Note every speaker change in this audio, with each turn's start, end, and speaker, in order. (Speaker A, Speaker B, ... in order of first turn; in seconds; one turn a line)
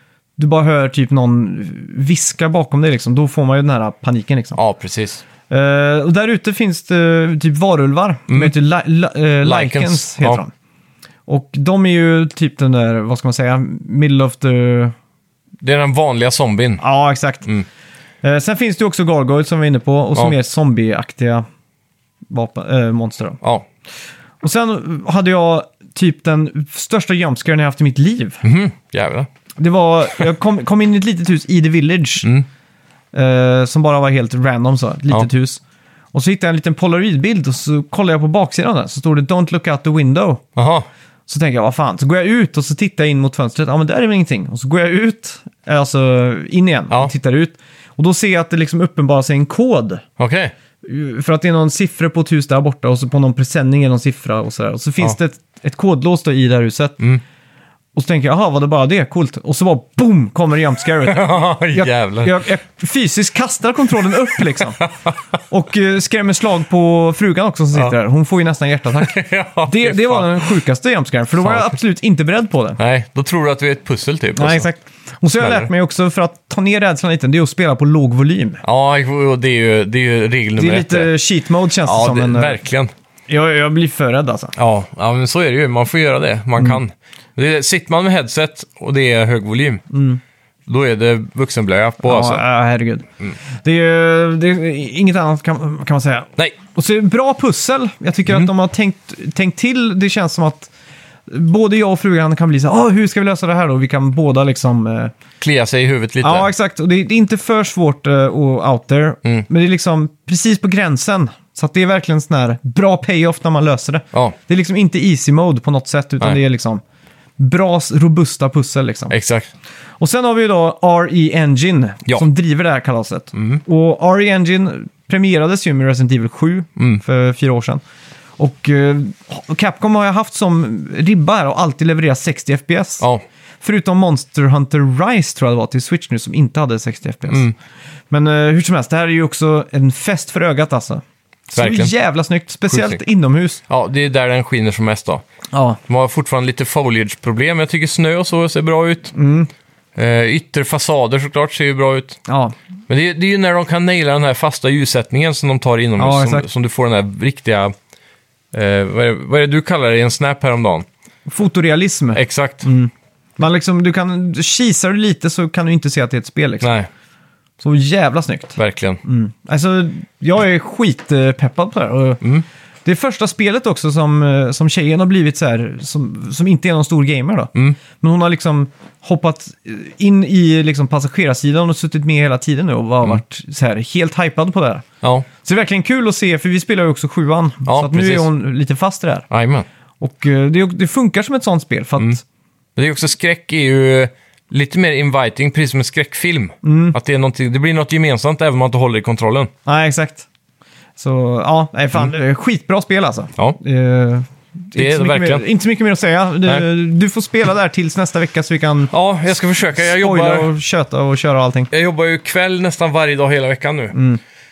Speaker A: 0.4-4.6
Speaker B: 4.5-5.2
Speaker A: 5.5-10.5
Speaker B: 9.4-10.4
Speaker A: 11.3-14.9
Speaker B: 15.6-16.8
Speaker A: 16.8-17.5
Speaker A: 18.2-21.4
Speaker A: 22.3-23.4
Speaker A: 24.4-28.4
Speaker B: 28.4-29.3
Speaker A: 29.6-32.3
Speaker A: 33.1-35.6
Speaker A: 36.1-40.4
Speaker B: 40.6-40.9
Speaker A: 41.3-50.0
Speaker B: 50.2-50.5
Speaker A: 50.8-57.0
Speaker A: 58.0-64.8
Speaker B: 61.1-62.4
Speaker B: 64.8-65.2
Speaker A: 65.5-72.8
Speaker B: 69.0-70.5
Speaker B: 71.4-71.7
Speaker B: 72.8-74.7
Speaker A: 74.4-78.6
Speaker B: 75.4-75.7
Speaker B: 78.6-81.1
Speaker A: 80.6-82.6
Speaker B: 81.8-82.9
Speaker A: 83.3-84.5
Speaker B: 84.6-89.8
Speaker A: 89.9-90.2
Speaker B: 90.7-92.4
Speaker A: 92.0-100.7
Speaker A: 101.3-105.1
Speaker B: 105.4-106.5
Speaker A: 106.2-116.8
Speaker A: 117.4-119.1
Speaker B: 119.1-119.5
Speaker A: 120.0-127.8
Speaker B: 123.3-123.6
Speaker B: 126.8-127.0
Speaker A: 128.4-133.0
Speaker A: 133.6-137.4
Speaker B: 137.3-137.6
Speaker A: 138.1-143.6
Speaker B: 141.6-141.9
Speaker B: 142.7-143.0
Speaker B: 143.7-145.2
Speaker A: 145.5-145.8
Speaker B: 145.9-149.2
Speaker A: 149.2-149.5
Speaker B: 150.0-152.2
Speaker A: 152.3-152.6
Speaker B: 152.9-157.7
Speaker A: 156.0-156.5
Speaker B: 158.5-160.9
Speaker A: 161.3-166.7
Speaker B: 162.2-162.7
Speaker B: 166.6-166.9
Speaker A: 167.6-172.2
Speaker B: 168.6-169.0
Speaker A: 172.8-184.8
Speaker B: 185.0-185.3
Speaker A: 185.4-189.3
Speaker B: 187.7-188.3
Speaker B: 189.3-189.7
Speaker A: 190.0-192.2
Speaker B: 192.8-199.5
Speaker A: 196.6-197.0
Speaker A: 199.7-200.3
Speaker A: 201.0-208.9
Speaker B: 204.8-205.4
Speaker B: 208.9-210.5
Speaker A: 209.7-211.7
Speaker B: 211.7-214.0
Speaker A: 213.9-214.2